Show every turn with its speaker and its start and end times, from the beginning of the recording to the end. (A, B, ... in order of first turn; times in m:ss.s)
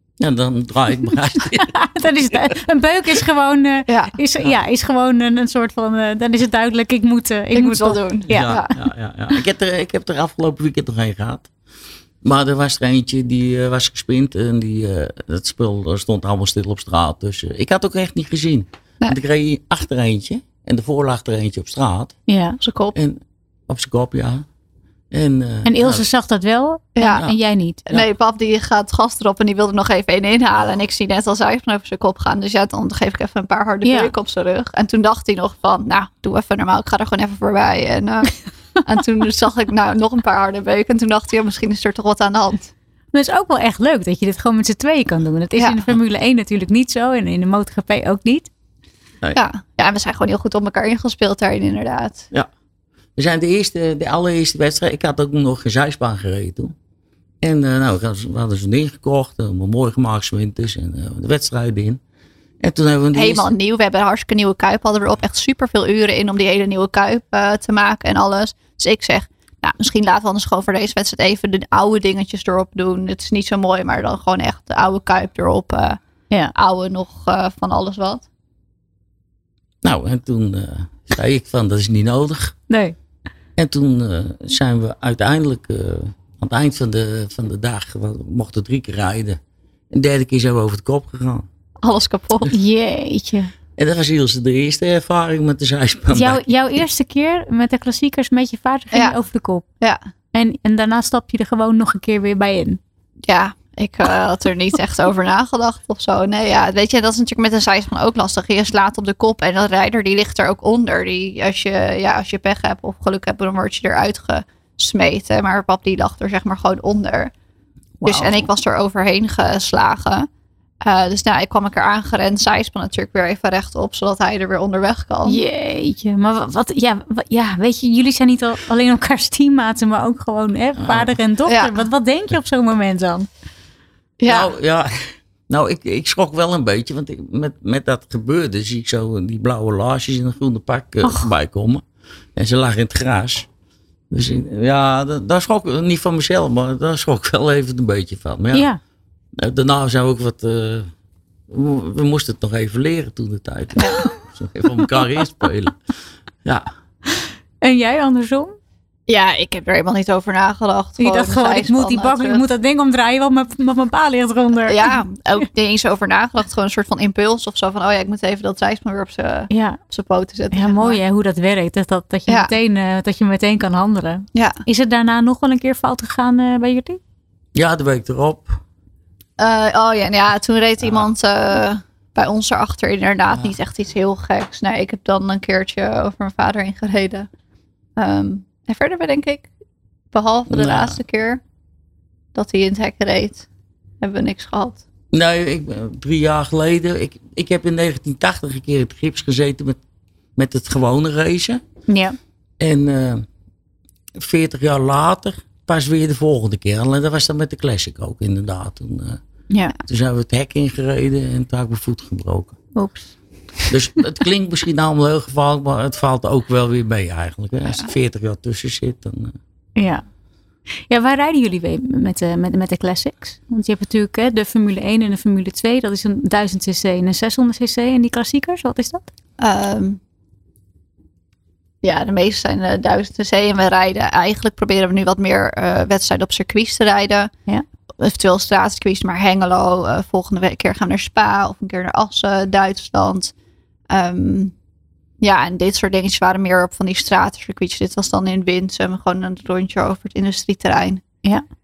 0:00.2-0:01.8 A
0:01.6-0:08.6 B
0:03.9-0:04.2 C
0:07.6-0:08.7 C
0:08.3-0:11.5 A
0:12.2-0:22.2 A
0:22.3-0:22.6 B
0:22.6-0:23.0 C
0:23.0-0:24.4 A
0:25.1-0:26.0 A
0:25.6-0:27.8 B
0:27.0-0:27.3 C
0:27.9-0:42.7 C
0:33.8-0:34.1 B
0:43.1-0:48.5 B
0:45.6-0:45.8 C
0:49.3-0:52.3 C
0:53.2-0:56.7 A
0:57.4-1:02.0 A
1:02.6-1:03.5 A
1:03.1-1:16.0 C
1:16.6-1:18.3 C
1:19.8-1:22.6 A
1:22.7-1:23.0 B
1:23.6-1:29.4 A
1:29.9-1:31.5 A
1:31.8-1:32.5 C
1:32.5-1:33.5 B
1:33.8-1:36.4 A
1:36.1-1:39.6 B
1:40.3-1:42.8 B
1:43.3-1:57.3 C
1:58.0-1:58.5 B
1:58.0-2:00.3 C
2:00.8-2:05.4 C
2:05.3-2:13.3 B
2:10.8-2:11.1 A
2:11.5-2:11.8 C
2:14.2-2:14.5 C
2:14.3-2:21.8 A
2:22.4-2:23.5 A
2:24.1-2:28.7 A
2:28.5-2:28.8 B
2:29.4-2:30.9 A
2:31.5-2:35.8 A
2:37.1-2:38.6 B
2:39.1-2:42.4 C
2:41.0-2:45.0 B
2:44.6-2:51.0 C
2:49.5-2:49.8 B
2:50.5-2:57.0 B
2:52.3-2:52.5 C
2:54.3-2:54.6 C
2:57.6-2:58.6 A
2:59.4-3:07.3 C
3:08.0-3:09.5 C
3:10.1-3:11.4 C
3:10.5-3:11.0 A
3:12.4-3:13.5 C
3:14.0-3:14.8 C
3:15.1-3:19.8 A
3:20.4-3:21.6 A
3:21.9-3:22.2 B
3:22.6-3:23.2 A
3:24.2-3:29.2 A
3:29.8-3:32.6 A
3:32.8-3:33.1 B
3:33.7-3:39.4 A
3:39.8-3:40.0 B
3:40.9-3:49.1 B
3:49.4-3:50.0 C
3:51.8-3:57.3 C
3:58.0-4:03.3 C
4:03.9-4:04.5 C
4:05.2-4:11.0 C